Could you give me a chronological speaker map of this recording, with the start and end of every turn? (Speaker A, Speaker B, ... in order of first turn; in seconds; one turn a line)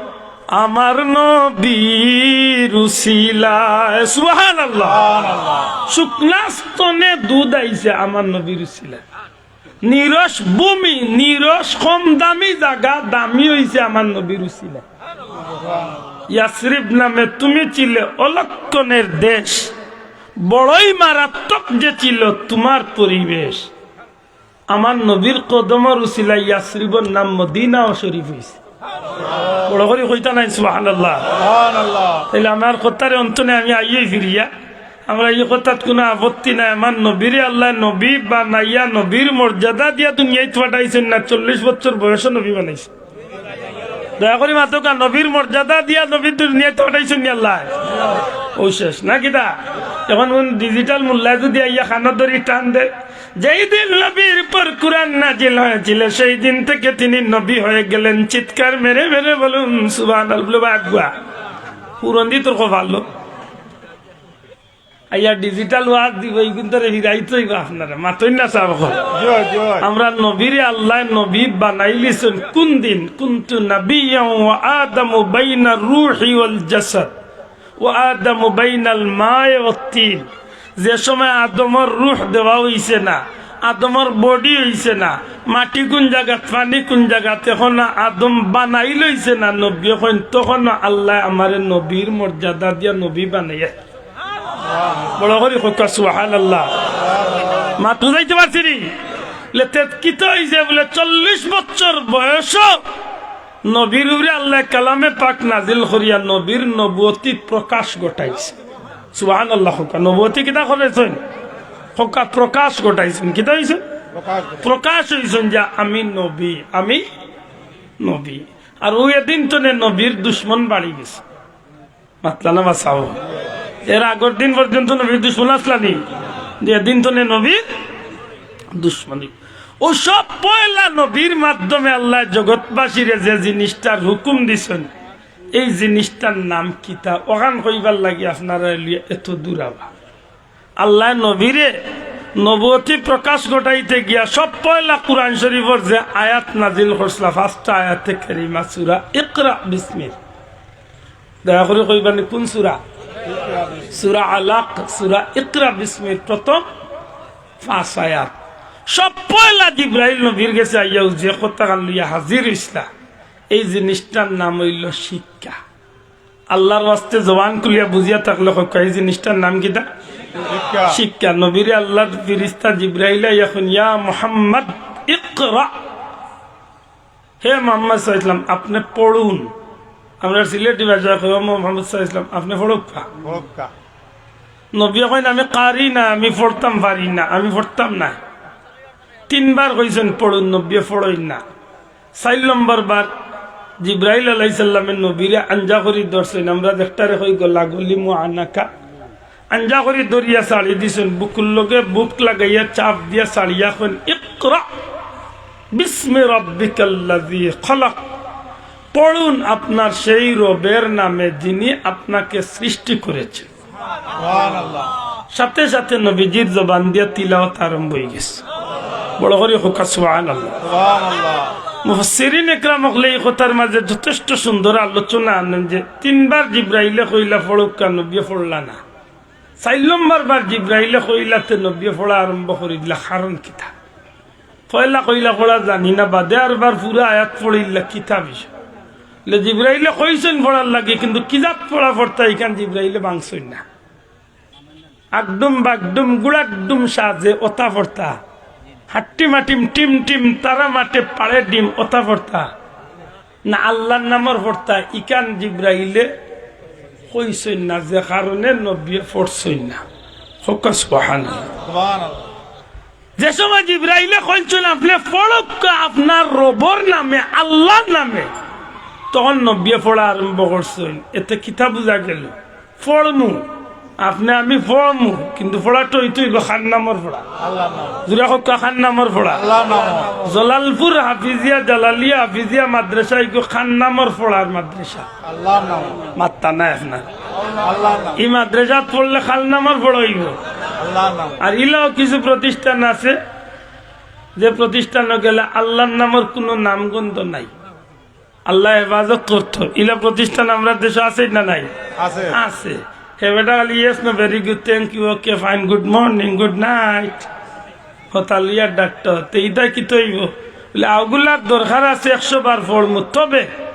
Speaker A: 0.5-5.1
Speaker B: 4.9-5.8
Speaker A: 5.9-9.0
Speaker A: 9.8-14.8
Speaker B: 15.4-16.0
Speaker A: 16.3-19.7
Speaker A: 20.4-23.7
Speaker A: 24.7-28.6
Speaker A: 29.7-31.3
Speaker B: 31.4-32.3
Speaker A: 32.3-34.5
Speaker A: 35.1-42.9
Speaker A: 44.2-47.7
Speaker A: 48.5-49.5
Speaker A: 50.1-61.1
Speaker A: 62.0-63.1
Speaker A: 65.1-69.0
Speaker B: 69.2-69.8
Speaker A: 69.8-77.1
Speaker A: 77.8-93.8
Speaker A: 95.2-96.7
Speaker A: 97.8-98.9
Speaker A: 99.5-102.8
Speaker A: 103.7-108.5
Speaker A: 109.1-111.2
Speaker A: 112.0-113.8
Speaker B: 114.2-114.6
Speaker A: 114.6-117.0
Speaker A: 118.0-121.2
Speaker A: 122.2-123.2
Speaker A: 123.8-126.0
Speaker A: 126.6-127.6
Speaker A: 128.7-134.9
Speaker A: 135.5-139.9
Speaker A: 140.8-141.8
Speaker A: 142.4-150.2
Speaker A: 151.4-152.8
Speaker B: 153.3-153.8
Speaker A: 153.9-156.7
Speaker A: 157.6-158.3
Speaker A: 158.9-162.9
Speaker A: 163.5-165.6
Speaker A: 166.5-169.8
Speaker B: 170.5-171.0
Speaker A: 170.9-175.7
Speaker A: 177.4-179.5
Speaker A: 180.2-183.1
Speaker B: 183.2-183.7
Speaker A: 184.7-188.2
Speaker A: 189.3-191.4
Speaker A: 192.2-193.1
Speaker A: 193.8-198.7
Speaker A: 199.5-204.7
Speaker A: 205.8-208.0
Speaker A: 208.9-213.5
Speaker B: 214.2-214.9
Speaker A: 215.3-218.4
Speaker A: 219.2-220.6
Speaker B: 220.6-221.5
Speaker A: 221.8-228.8
Speaker A: 229.6-233.7
Speaker A: 234.7-238.5
Speaker A: 239.3-243.6
Speaker A: 245.1-248.2
Speaker A: 248.9-252.5
Speaker A: 253.5-256.1
Speaker A: 257.1-259.8
Speaker A: 260.4-261.5
Speaker B: 261.6-262.2
Speaker A: 263.2-268.3
Speaker A: 269.1-273.4
Speaker A: 274.0-277.2
Speaker B: 277.4-278.0
Speaker A: 278.1-279.5
Speaker B: 279.4-280.2
Speaker A: 280.2-285.1
Speaker B: 285.2-286.1
Speaker A: 286.1-287.1
Speaker B: 287.4-288.2
Speaker A: 288.2-290.4
Speaker B: 290.8-291.4
Speaker A: 291.4-293.2
Speaker A: 294.4-297.5
Speaker A: 298.5-301.7
Speaker B: 302.0-302.4
Speaker A: 302.3-307.3
Speaker A: 308.1-313.5